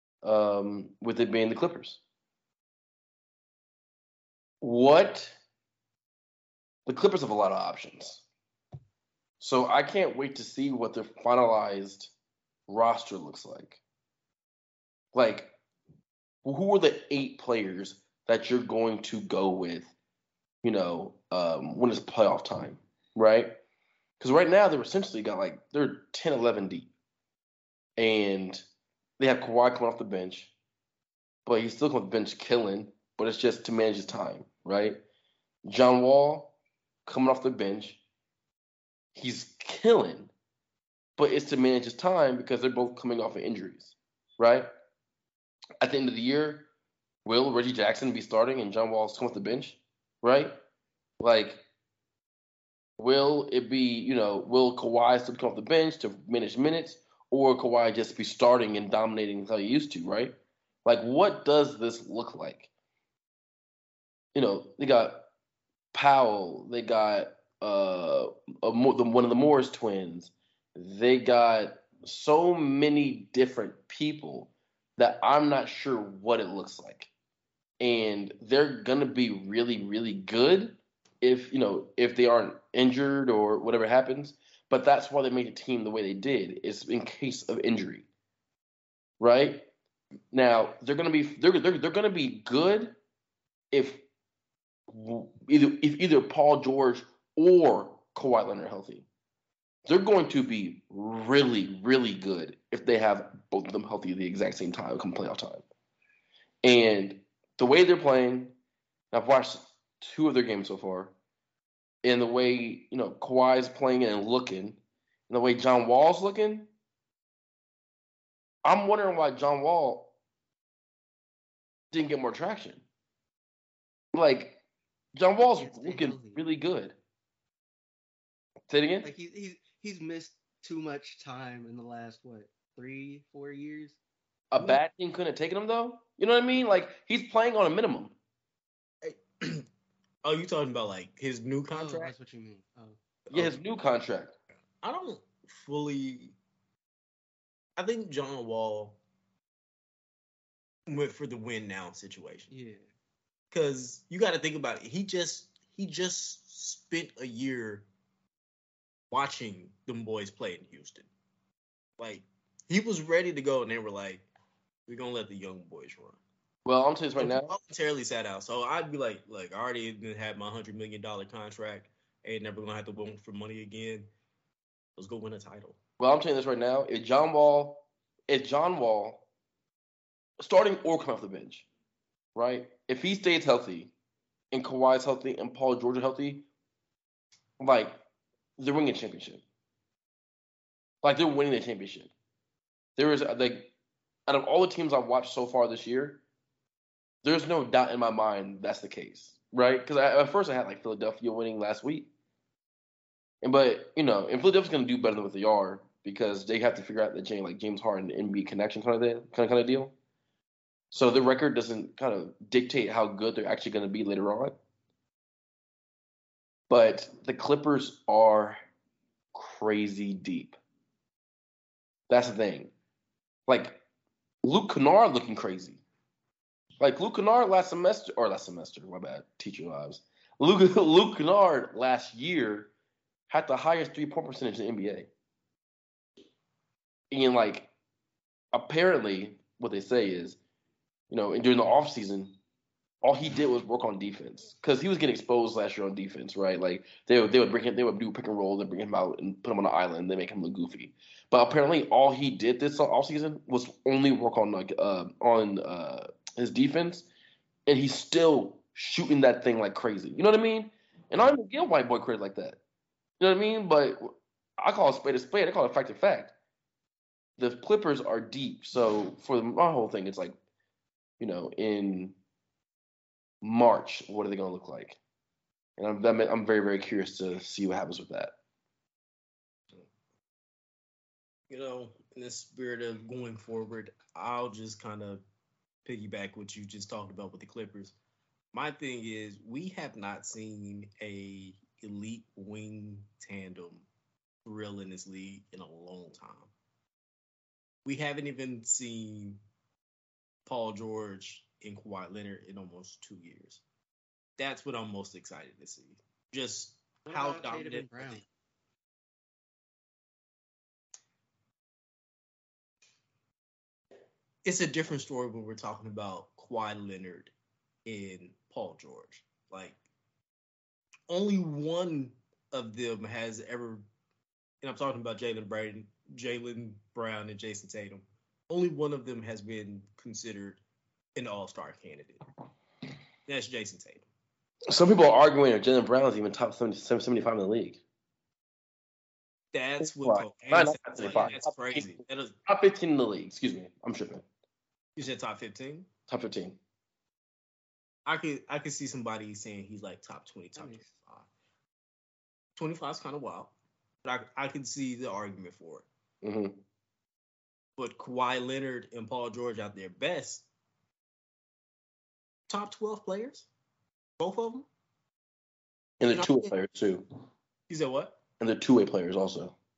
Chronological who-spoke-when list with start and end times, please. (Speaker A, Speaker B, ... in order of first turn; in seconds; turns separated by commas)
Speaker A: 0.2-2.0, Speaker A: 4.6-5.4, Speaker A: 6.9-8.3, Speaker A: 9.4-12.1, Speaker A: 12.7-13.8, Speaker A: 15.1-15.5, Speaker A: 16.4-19.9, Speaker A: 20.6-23.6, Speaker A: 24.2-26.9, Speaker A: 28.0-28.6, Speaker A: 29.2-30.5, Speaker A: 31.4-35.0, Speaker A: 35.6-38.0, Speaker A: 39.1-40.3, Speaker A: 41.2-44.7, Speaker A: 45.8-46.7, Speaker A: 47.2-50.6, Speaker A: 51.2-51.6, Speaker A: 53.0-62.7, Speaker A: 64.3-65.3, Speaker A: 65.9-77.1, Speaker A: 77.8-88.1, Speaker A: 89.2-89.7, Speaker A: 90.3-93.0, Speaker A: 93.7-94.0, Speaker A: 94.9-99.1, Speaker A: 99.8-105.6, Speaker A: 106.6-108.5, Speaker A: 109.1-111.1, Speaker A: 112.0-116.7, Speaker A: 118.6-120.1, Speaker A: 121.9-122.8, Speaker A: 124.1-124.6, Speaker A: 125.1-127.0, Speaker B: 125.5-126.4, Speaker A: 128.7-129.1, Speaker B: 129.0-134.0, Speaker A: 134.5-138.1, Speaker C: 139.0-139.7, Speaker C: 140.2-142.1, Speaker B: 141.7-143.0, Speaker C: 143.3-143.6, Speaker A: 143.3-144.3, Speaker C: 144.8-146.3, Speaker C: 147.8-149.0, Speaker C: 150.9-152.5, Speaker B: 152.5-152.8, Speaker C: 153.5-157.9, Speaker C: 159.1-161.1, Speaker C: 162.0-164.3, Speaker C: 164.9-166.2, Speaker A: 166.6-167.6, Speaker C: 167.2-174.1, Speaker C: 174.9-175.8, Speaker A: 176.0-179.3, Speaker A: 180.4-181.7, Speaker A: 182.4-183.9, Speaker A: 184.5-186.5, Speaker A: 187.6-188.0, Speaker A: 188.6-189.4, Speaker A: 191.0-192.1, Speaker A: 193.0-193.7, Speaker A: 194.3-196.2, Speaker A: 197.2-202.1, Speaker A: 203.4-209.9, Speaker A: 210.9-214.5, Speaker A: 216.7-218.6, Speaker A: 219.3-220.6, Speaker A: 222.1-222.7, Speaker A: 223.5-223.8, Speaker A: 224.4-225.8, Speaker A: 226.8-232.7, Speaker A: 233.3-235.1, Speaker A: 237.1-237.7, Speaker A: 238.5-240.4, Speaker A: 241.1-242.4, Speaker A: 243.0-257.1, Speaker A: 257.7-262.6, Speaker A: 263.2-266.3, Speaker A: 267.4-270.3, Speaker A: 271.2-272.1, Speaker A: 273.4-275.0, Speaker A: 275.8-278.4, Speaker C: 281.5-285.2, Speaker C: 285.9-287.9, Speaker C: 288.5-293.9, Speaker C: 294.4-296.5, Speaker C: 297.9-299.4, Speaker C: 300.4-303.6, Speaker C: 304.4-308.2, Speaker B: 307.1-308.2, Speaker C: 314.4-317.3, Speaker C: 317.9-319.8, Speaker C: 321.1-323.8, Speaker C: 324.6-330.6, Speaker C: 331.1-332.2, Speaker C: 333.3-334.0, Speaker A: 334.7-337.8, Speaker C: 339.5-342.4, Speaker A: 339.8-341.9, Speaker A: 342.4-344.2, Speaker C: 344.9-345.9, Speaker A: 346.1-346.6, Speaker C: 348.1-351.3, Speaker B: 350.6-350.9, Speaker C: 352.6-353.5, Speaker C: 354.0-355.9, Speaker A: 356.2-356.6, Speaker C: 357.8-360.4, Speaker C: 362.5-363.5, Speaker C: 364.2-364.7, Speaker A: 366.0-367.0, Speaker C: 366.1-366.5, Speaker C: 367.7-368.2, Speaker A: 368.4-369.6